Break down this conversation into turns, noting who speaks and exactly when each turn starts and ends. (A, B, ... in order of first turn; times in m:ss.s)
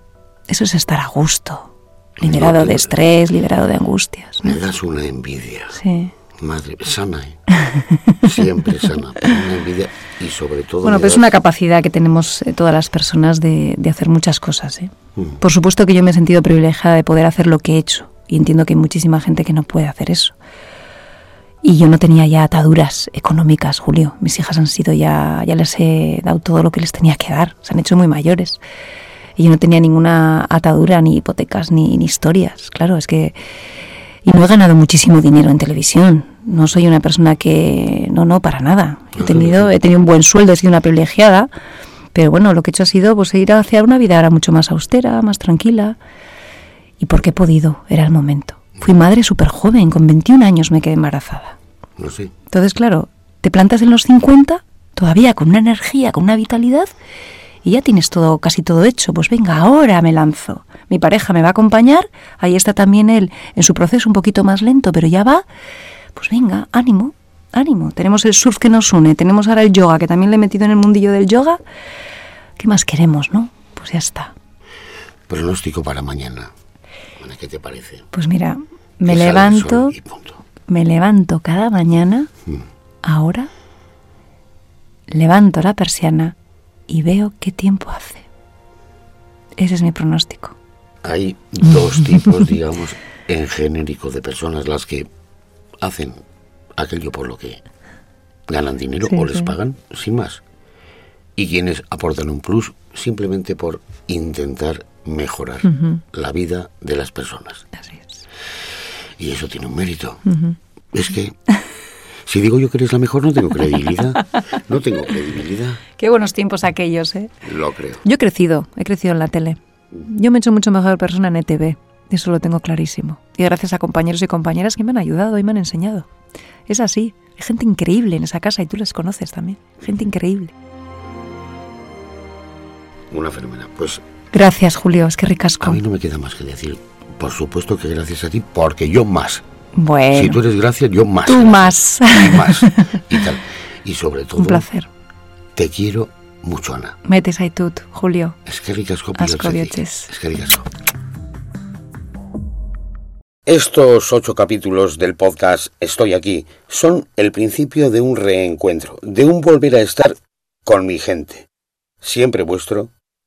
0:00.5-0:04.6 A
0:02.2-0:02.9 B
0:04.4-0:05.8 B
0:05.7-0:06.1 A
0:06.4-0:07.4 B
0:07.6-0:08.1 A
0:08.2-0:11.3 B
0:10.8-0:20.4 A
0:15.2-0:15.4 B
0:21.6-0:28.6 A
0:29.4-0:33.4 A
0:34.2-0:41.5 A
0:39.2-0:39.7 B
0:42.1-0:46.0 A
0:47.0-0:51.6 A
0:52.0-0:52.3 B
0:52.5-0:56.9 A
0:57.6-1:05.4 A
1:06.2-1:11.6 A
1:12.6-1:14.3 A
1:15.3-1:16.5 B
1:17.2-1:18.1 B
1:18.1-1:20.0 A
1:19.1-1:20.4 B
1:20.7-1:22.3 A
1:23.0-1:23.5 A
1:25.1-1:26.4 A
1:26.9-1:28.3 A
1:29.6-1:30.6 A
1:31.0-1:35.1 B
1:35.8-1:36.2 B
1:36.8-1:37.6 B
1:38.5-1:40.4 B
1:39.1-1:39.5 A
1:41.4-1:47.7 B
1:45.7-1:46.0 A
1:47.8-1:48.2 A
1:49.2-1:50.3 B
1:50.3-1:50.6 A
1:50.9-1:51.4 B
1:52.3-1:55.8 B
1:54.2-1:54.4 A
1:56.0-1:57.3 A
1:57.4-1:58.0 B
1:58.0-2:06.1 A
2:06.7-2:10.5 A
2:13.1-2:14.0 B
2:14.3-2:15.8 A
2:15.6-2:19.4 B
2:19.8-2:20.4 A
2:20.1-2:24.7 B
2:21.3-2:23.0 A
2:24.4-2:24.9 A
2:25.6-2:27.0 B
2:27.0-2:28.4 A
2:28.5-2:30.7 B
2:29.2-2:30.1 A
2:33.5-2:41.5 B
2:42.0-2:42.9 B